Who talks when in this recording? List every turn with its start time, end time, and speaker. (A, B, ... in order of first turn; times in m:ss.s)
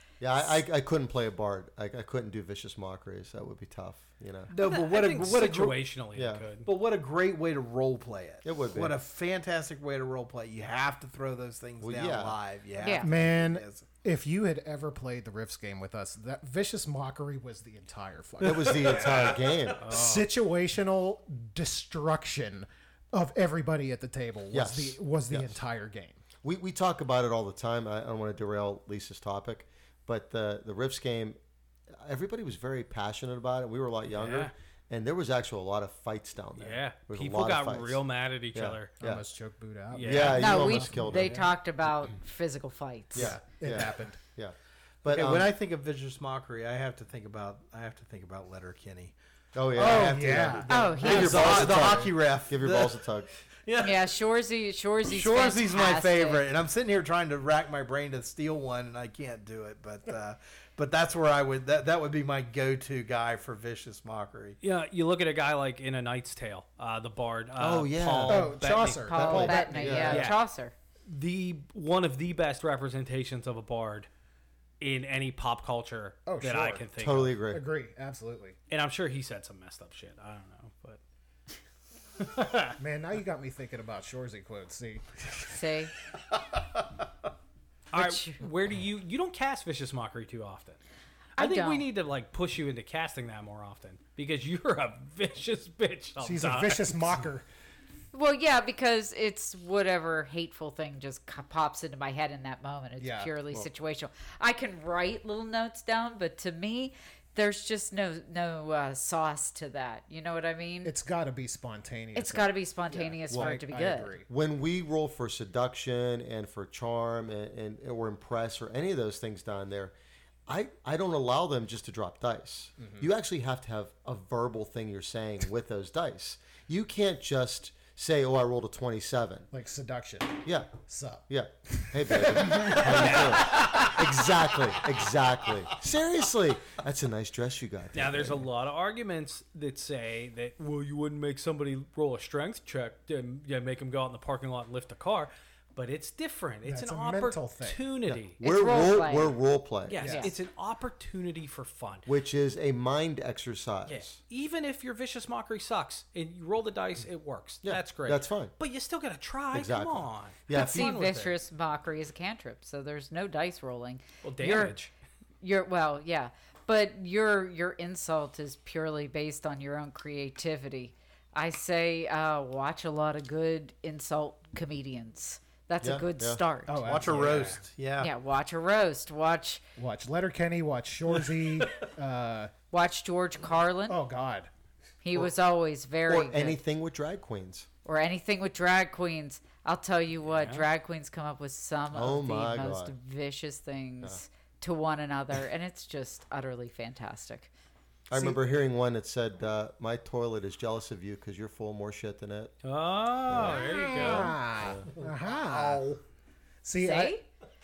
0:00.2-0:04.5 A
0:04.5-0:05.8 B
0:04.5-0:06.7 C
0:06.2-0:06.5 A
0:06.7-0:13.9 B
0:08.4-0:09.0 A
0:11.8-0:12.4 A
0:12.8-0:13.1 D
0:13.0-0:19.3 E
0:18.4-0:20.0 A
0:18.5-0:19.6 B
0:19.8-0:20.3 C
0:19.9-0:26.2 E
0:24.5-0:25.6 A
0:26.4-0:31.4 A
0:32.0-0:38.0 A
0:34.1-0:34.5 C
0:36.6-0:38.9 C
0:38.5-0:39.2 A
0:39.0-0:41.5 E
0:39.9-0:40.5 C
0:40.0-0:41.4 A
0:40.2-0:43.4 D
0:43.1-0:44.2 E
0:43.2-0:45.5 A
0:45.1-0:49.2 B
0:49.6-0:53.3 A
0:49.7-0:53.1 B
0:49.8-0:52.1 E
0:50.7-0:51.7 D
0:53.6-0:54.1 B
0:53.8-0:56.4 D
0:55.1-1:04.6 B
1:04.6-1:10.4 C
1:07.6-1:08.6 A
1:08.3-1:10.3 E
1:09.0-1:10.7 D
1:09.2-1:10.3 A
1:11.1-1:14.1 C
1:14.8-1:17.4 C
1:16.3-1:16.9 E
1:17.0-1:17.6 A
1:17.5-1:18.6 E
1:18.7-1:21.0 C
1:22.2-1:22.8 C
1:22.8-1:25.6 E
1:25.5-1:25.9 D
1:27.9-1:30.8 C
1:27.9-1:28.4 D
1:31.4-1:31.9 D
1:31.4-1:37.2 C
1:36.2-1:37.5 E
1:38.1-1:50.9 D
1:43.0-1:43.6 E
1:50.8-1:54.3 E
1:52.2-1:54.2 D
1:53.3-1:53.6 A
1:54.3-2:00.0 A
2:00.5-2:09.5 A
2:02.8-2:03.1 E
2:09.5-2:13.6 E
2:10.4-2:10.7 A
2:11.3-2:18.5 A
2:12.7-2:14.0 C
2:17.9-2:28.4 C
2:26.6-2:27.8 E
2:28.1-2:30.2 A
2:28.4-2:29.4 D
2:29.9-2:32.1 C
2:30.0-2:30.3 E
2:30.0-2:30.3 D
2:32.1-2:34.2 A
2:33.9-2:41.4 C
2:37.6-2:38.5 A
2:39.5-2:40.9 A
2:40.5-2:44.8 D
2:44.2-2:44.9 C
2:45.4-2:57.1 D
2:55.8-2:56.4 A
2:56.7-2:57.6 E
2:56.8-2:58.1 B
2:58.0-2:59.6 D
2:59.8-3:02.5 E
3:02.7-3:04.0 D
3:03.9-3:04.5 E
3:05.0-3:06.6 D
3:06.1-3:07.7 A
3:07.8-3:17.5 D
3:10.3-3:10.7 C
3:11.9-3:12.9 A
3:18.1-3:22.6 A
3:18.1-3:18.4 E
3:22.6-3:24.4 C
3:23.3-3:24.9 A
3:23.8-3:26.0 E
3:24.9-3:26.0 B
3:26.6-3:27.2 E
3:26.8-3:27.2 D